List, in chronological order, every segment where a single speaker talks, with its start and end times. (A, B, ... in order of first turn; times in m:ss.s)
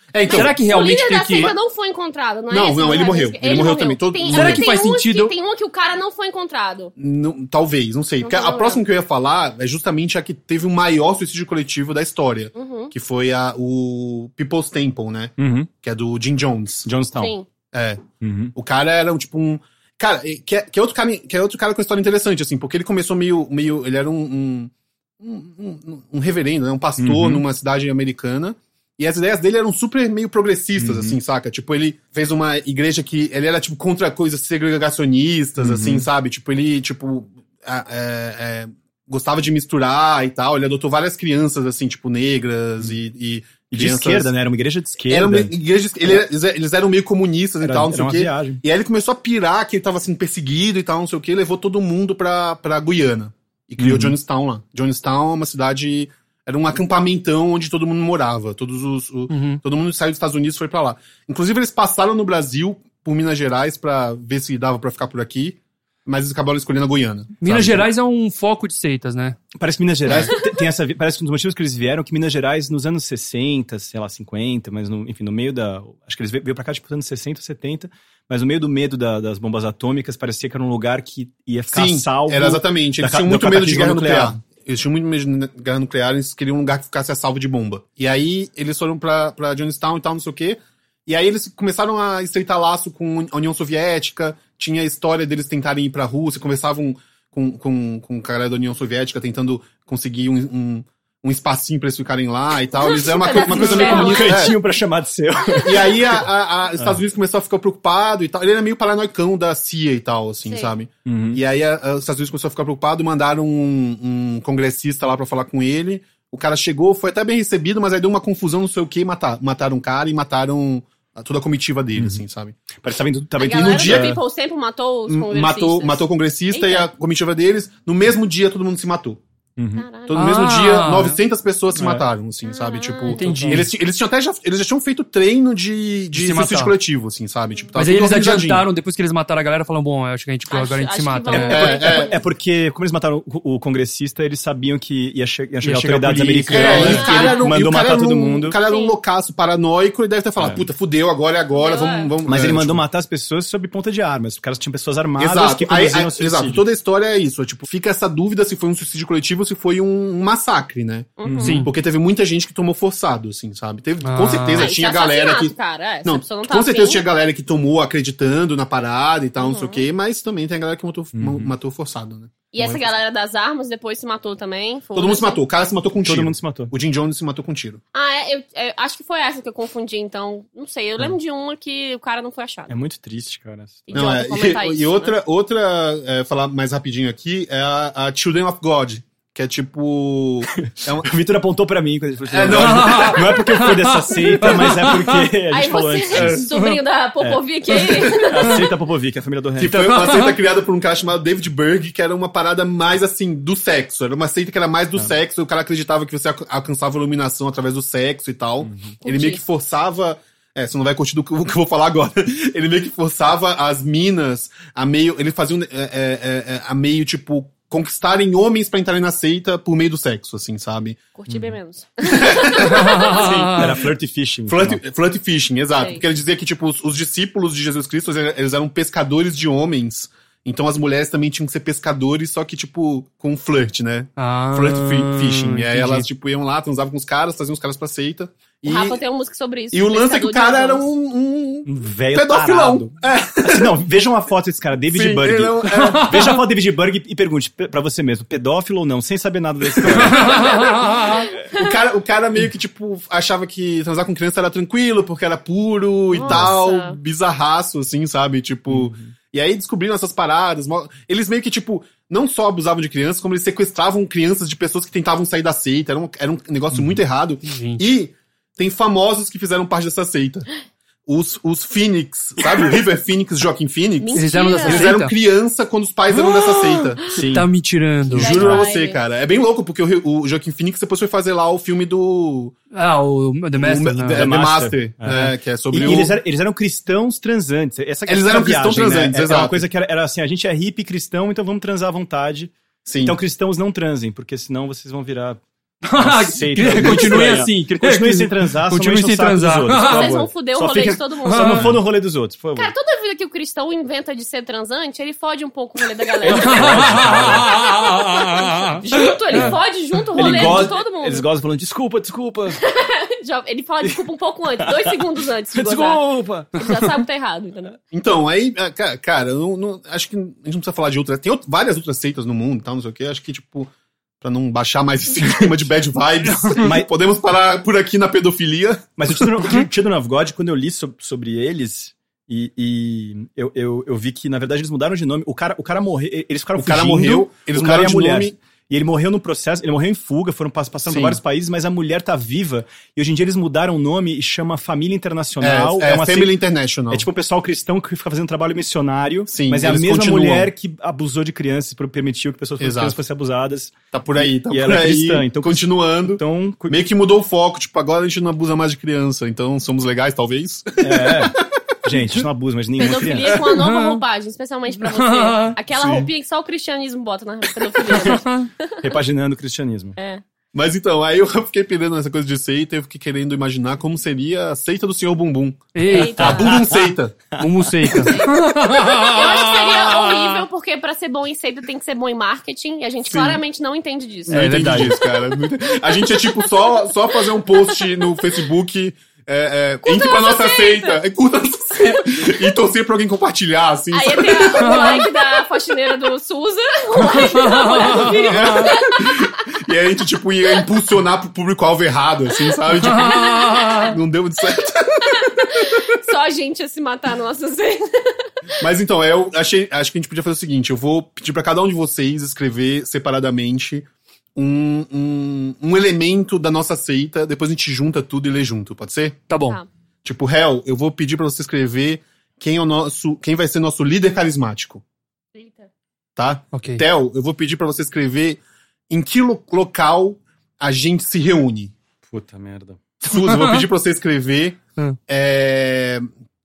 0:00.1-0:00.6 A
0:00.3-0:06.9 B
0:00.3-0:01.5 C
0:02.5-0:04.6 A
0:04.3-0:05.3 C
0:07.0-0:16.9 A
0:08.2-0:08.8 B
0:12.5-0:12.9 B
0:15.4-0:15.7 D
0:16.8-0:17.3 D
0:17.2-0:17.4 B
0:17.7-0:18.0 A
0:18.2-0:18.5 D
0:18.5-0:44.3 A
0:27.0-0:27.4 D
0:30.8-0:31.2 D
0:35.6-0:36.1 D
0:43.7-0:45.5 D
0:45.1-1:07.8 A
0:47.6-0:48.6 D
0:53.8-0:54.1 D
0:59.3-0:59.6 C
1:07.4-1:09.4 C
1:09.6-1:24.4 D
1:10.1-1:10.3 A
1:21.7-1:44.5 A
1:42.7-1:44.6 B
1:43.4-1:46.2 D
1:45.6-2:02.6 A
1:50.4-1:50.7 B
1:51.0-1:51.4 D
2:02.0-2:02.2 D
2:02.8-2:04.2 D
2:03.4-2:06.9 B
2:03.4-2:04.2 A
2:05.1-2:09.2 A
2:09.6-2:09.8 D
2:09.8-2:10.2 B
2:10.1-2:18.6 A
2:10.1-2:11.2 C
2:11.8-2:12.0 D
2:12.4-2:13.2 B
2:13.1-2:13.7 D
2:13.1-2:13.7 C
2:16.1-2:16.7 C
2:17.7-2:21.7 C
2:20.5-2:22.2 B
2:21.3-2:28.6 D
2:21.3-2:22.1 A
2:25.6-2:32.8 A
2:26.5-2:27.5 B
2:26.6-2:27.0 C
2:28.6-2:28.9 B
2:30.4-2:30.6 D
2:31.5-2:32.1 B
2:32.2-2:36.6 D
2:35.2-2:52.9 A
2:41.2-2:41.6 B
2:41.2-2:41.6 D
2:41.4-2:41.7 C
2:44.0-2:44.7 C
2:44.5-2:47.0 B
2:49.4-2:49.8 B
2:51.1-2:51.5 D
2:52.5-2:55.4 B
2:54.9-2:57.8 A
2:56.0-2:56.7 D
2:57.9-3:02.7 B
3:02.7-3:04.0 D
3:03.9-3:05.1 B
3:03.9-3:11.1 A
3:10.6-3:16.5 D
3:12.3-3:13.3 A
3:12.5-3:15.3 C
3:15.5-3:18.6 B
3:16.3-3:16.8 C
3:17.2-3:20.0 D
3:19.6-3:41.0 A
3:19.7-3:20.4 C
3:28.6-3:29.0 D
3:29.0-3:29.4 B
3:41.2-3:43.0 B
3:41.3-3:41.5 D
3:42.0-3:42.8 A
3:42.6-3:43.7 C
3:42.9-3:44.8 D
3:44.5-3:59.0 A
3:54.2-3:56.1 C
3:58.6-4:00.8 B
3:59.7-4:03.8 A
4:01.6-4:10.6 D
4:04.9-4:06.2 A
4:05.8-4:06.4 C
4:09.9-4:11.3 C
4:11.5-4:30.5 A
4:16.1-4:17.0 B
4:18.7-4:19.1 D
4:26.7-4:27.0 D
4:27.5-4:27.8 C
4:31.0-4:37.0 A
4:34.0-4:34.9 B
4:34.1-4:35.1 C
4:37.1-4:37.5 D
4:37.2-4:38.4 C
4:38.1-4:42.5 A
4:38.1-4:39.0 B
4:38.2-4:38.6 D
4:42.7-4:44.3 C
4:43.6-4:46.2 A
4:44.1-4:55.4 D
4:48.1-4:49.6 A
4:52.8-4:53.2 A
4:55.9-5:00.2 C
4:56.0-5:02.7 D
4:59.7-5:01.7 B
5:01.2-5:01.8 C
5:02.6-5:11.2 B
5:06.2-5:07.5 D
5:06.3-5:09.5 C
5:10.1-5:12.6 D
5:10.2-5:10.6 C
5:12.6-5:16.0 B
5:14.6-5:16.5 D
5:16.5-5:17.8 B
5:17.9-5:29.3 A
5:26.2-5:26.7 C
5:26.6-5:26.9 D
5:29.0-5:46.3 D
5:36.6-5:38.3 A
5:40.8-5:41.2 A
5:45.4-5:47.1 A
5:46.9-5:56.8 D
5:49.3-5:50.5 A
5:52.6-5:53.0 A
5:53.9-6:01.5 A
6:00.8-6:03.4 D
6:02.8-6:09.0 B
6:03.5-6:04.0 C
6:04.8-6:05.6 C
6:05.7-6:06.1 A
6:07.9-6:08.5 C
6:08.8-6:10.0 D
6:10.0-6:10.2 B
6:10.5-6:17.2 A
6:15.7-6:16.4 C
6:15.8-6:16.6 B
6:15.9-6:18.1 D
6:17.4-6:20.3 C
6:18.0-6:24.5 B
6:23.1-6:23.4 A
6:24.3-6:25.0 C
6:24.3-6:34.8 A
6:26.2-6:26.9 B
6:29.8-6:31.0 B
6:33.9-6:39.1 B
6:34.6-6:35.0 C
6:37.0-6:37.2 A
6:37.0-6:38.7 C
6:38.0-6:45.8 A
6:42.8-6:43.9 C
6:45.5-6:48.2 B
6:48.6-6:59.2 A
6:59.3-6:59.6 C
7:00.0-7:04.8 A
7:05.3-7:05.7 B
7:06.2-7:11.7 A
7:06.5-7:06.8 C
7:12.0-7:12.8 D
7:13.0-7:16.1 A
7:13.2-7:13.6 C